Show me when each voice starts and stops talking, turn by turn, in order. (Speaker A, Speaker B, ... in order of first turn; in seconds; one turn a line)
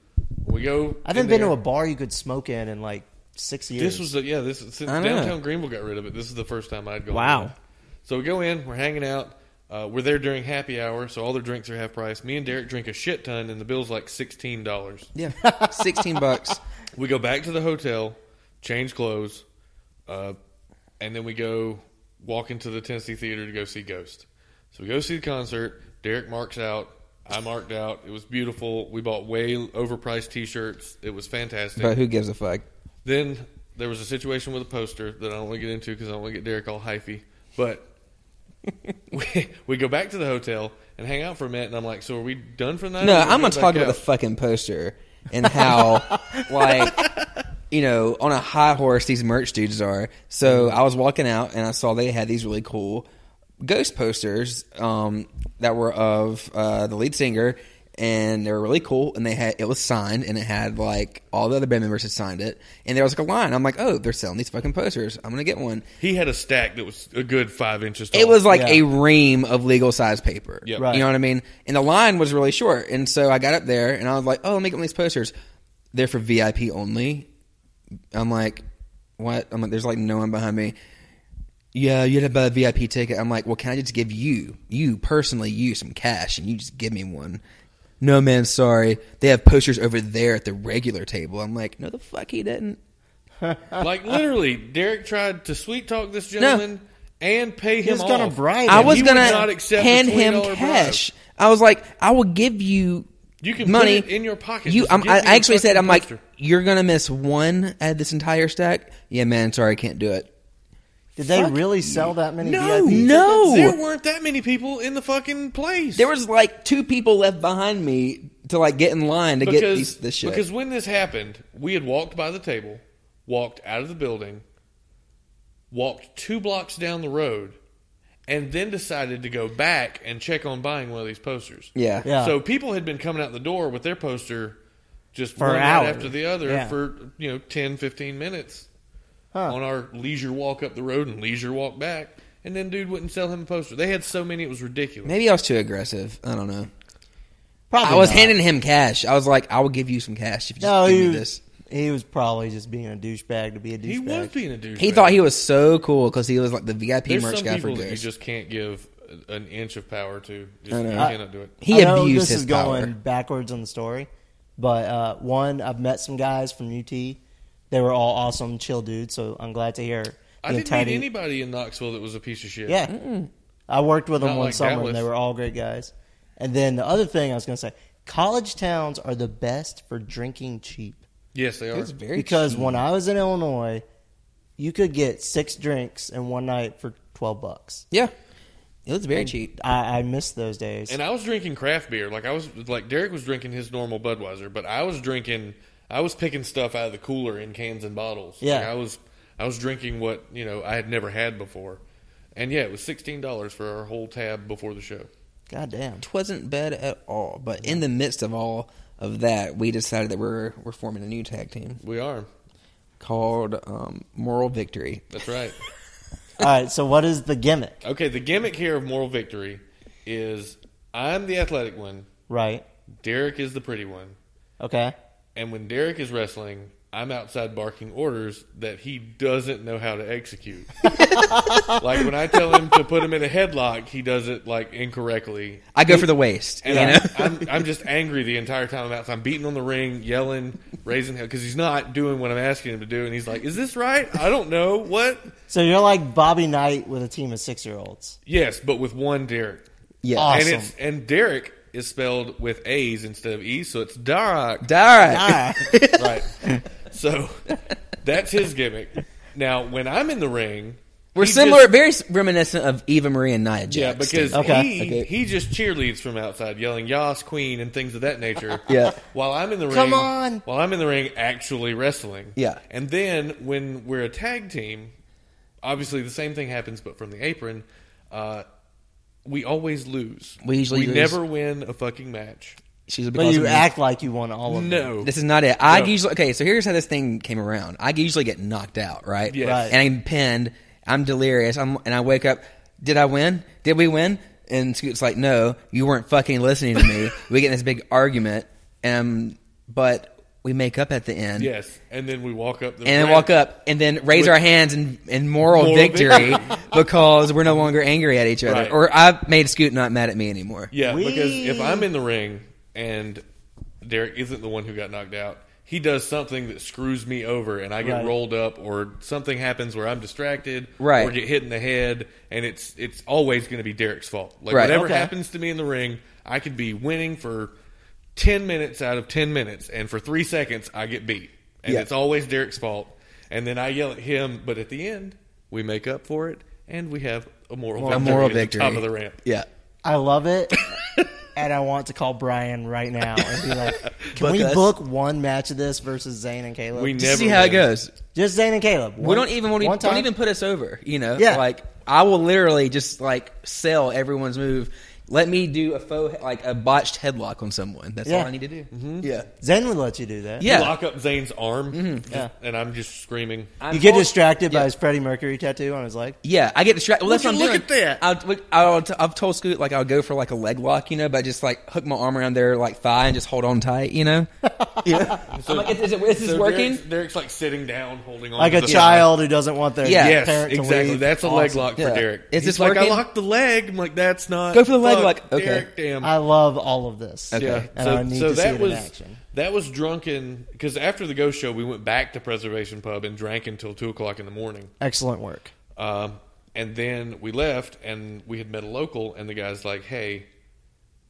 Speaker A: 0.4-1.6
Speaker B: 1.1-4.1
Speaker A: 3.8-7.5
Speaker C: 4.9-5.4
Speaker B: 7.1-7.5
Speaker A: 8.1-15.1
Speaker C: 15.2-16.6
Speaker B: 15.4-16.6
Speaker A: 16.9-19.4
Speaker A: 20.1-20.4
Speaker A: 21.0-32.0
Speaker C: 31.8-32.6
Speaker A: 33.0-37.9
Speaker A: 39.1-44.0
Speaker C: 43.0-47.1
Speaker C: 47.7-53.1
Speaker A: 50.5-50.8
Speaker C: 53.6-65.9
Speaker A: 66.0-68.4
Speaker C: 68.1-75.3
Speaker B: 68.5-68.8
Speaker B: 70.8-71.1
Speaker C: 75.9-77.3
Speaker C: 78.1-78.6
Speaker C: 79.2-80.8
Speaker C: 81.7-87.4
Speaker C: 88.0-92.8
Speaker B: 93.4-93.9
Speaker A: 93.8-101.0
Speaker C: 96.4-96.6
Speaker B: 97.8-99.5
Speaker C: 98.7-103.1
Speaker A: 103.4-106.2
Speaker C: 103.6-104.1
Speaker C: 104.7-110.3
Speaker B: 111.2-113.2
Speaker C: 111.2-112.1
Speaker A: 112.4-116.1
Speaker C: 112.8-113.8
Speaker C: 116.0-120.5
Speaker A: 119.4-124.4
Speaker A: 125.7-127.6
Speaker A: 128.3-134.6
Speaker C: 131.8-132.1
Speaker B: 132.0-132.4
Speaker A: 135.1-138.7
Speaker B: 135.4-136.8
Speaker A: 139.5-145.2
Speaker C: 145.0-146.7
Speaker B: 147.7-148.4
Speaker C: 147.8-151.4
Speaker B: 150.6-154.3
Speaker A: 153.8-155.2
Speaker C: 154.8-158.1
Speaker A: 157.1-161.5
Speaker C: 160.7-162.9
Speaker B: 161.0-167.2
Speaker B: 167.7-171.1
Speaker A: 170.4-172.8
Speaker B: 172.7-172.9
Speaker C: 172.9-173.3
Speaker B: 173.7-181.0
Speaker A: 174.2-175.1
Speaker A: 181.3-181.9
Speaker C: 181.7-182.8
Speaker B: 182.2-183.8
Speaker B: 184.6-187.8
Speaker C: 188.9-189.5
Speaker B: 189.2-191.0
Speaker A: 190.9-201.8
Speaker B: 198.4-198.7
Speaker A: 202.3-205.1
Speaker B: 205.5-206.1
Speaker C: 206.0-211.8
Speaker A: 211.8-212.3
Speaker C: 213.0-215.2
Speaker A: 215.1-215.6
Speaker B: 216.4-217.8
Speaker A: 217.8-222.1
Speaker B: 222.3-222.7
Speaker A: 223.0-224.2
Speaker B: 224.6-224.9
Speaker A: 225.4-230.8
Speaker B: 230.9-231.8
Speaker C: 230.9-231.8
Speaker A: 231.8-235.8
Speaker C: 235.7-237.6
Speaker A: 236.6-245.3
Speaker B: 236.7-237.0
Speaker B: 245.5-248.2
Speaker A: 248.3-249.7
Speaker C: 250.0-250.4
Speaker B: 250.2-250.7
Speaker A: 250.2-254.7
Speaker C: 254.6-256.3
Speaker B: 255.0-255.7
Speaker A: 255.9-261.7
Speaker C: 261.1-265.1
Speaker A: 263.7-274.9
Speaker B: 264.3-264.7
Speaker C: 268.7-269.0
Speaker B: 269.7-270.4
Speaker C: 272.4-272.6
Speaker A: 275.6-278.4
Speaker A: 279.2-282.6
Speaker C: 280.4-281.2
Speaker C: 282.9-283.7
Speaker B: 283.1-284.9
Speaker A: 284.5-285.1
Speaker C: 285.0-301.5
Speaker A: 285.7-285.9
Speaker A: 289.3-289.7
Speaker B: 289.4-289.8
Speaker A: 301.4-303.3
Speaker C: 302.9-310.7
Speaker A: 304.1-304.4
Speaker A: 305.5-306.7
Speaker A: 308.4-308.8
Speaker A: 310.7-313.2
Speaker B: 310.8-311.9
Speaker A: 313.8-327.5
Speaker B: 317.8-318.1
Speaker C: 320.8-321.2
Speaker C: 324.5-324.8
Speaker B: 324.6-325.1
Speaker A: 328.2-339.2
Speaker B: 337.8-338.4
Speaker C: 337.9-339.5
Speaker B: 339.8-340.6
Speaker B: 341.4-347.0
Speaker C: 343.4-344.7
Speaker A: 346.8-347.7
Speaker C: 347.0-347.9
Speaker B: 348.1-350.1
Speaker C: 349.0-359.3
Speaker B: 351.2-351.4
Speaker B: 358.1-358.3
Speaker A: 358.7-359.1
Speaker B: 359.4-360.5
Speaker C: 360.4-360.8
Speaker A: 360.4-363.5
Speaker C: 361.7-362.1
Speaker C: 363.6-364.7
Speaker B: 363.7-366.2
Speaker C: 366.2-374.3
Speaker A: 367.1-368.0
Speaker B: 374.4-375.3
Speaker C: 374.8-376.8
Speaker A: 375.3-379.1
Speaker B: 378.4-381.7
Speaker C: 378.7-379.0
Speaker C: 379.8-380.2
Speaker A: 379.9-386.1
Speaker C: 381.8-383.0
Speaker C: 384.5-385.7
Speaker B: 386.0-389.2
Speaker C: 387.3-387.7
Speaker A: 387.4-394.7
Speaker B: 394.8-395.5
Speaker A: 395.8-400.3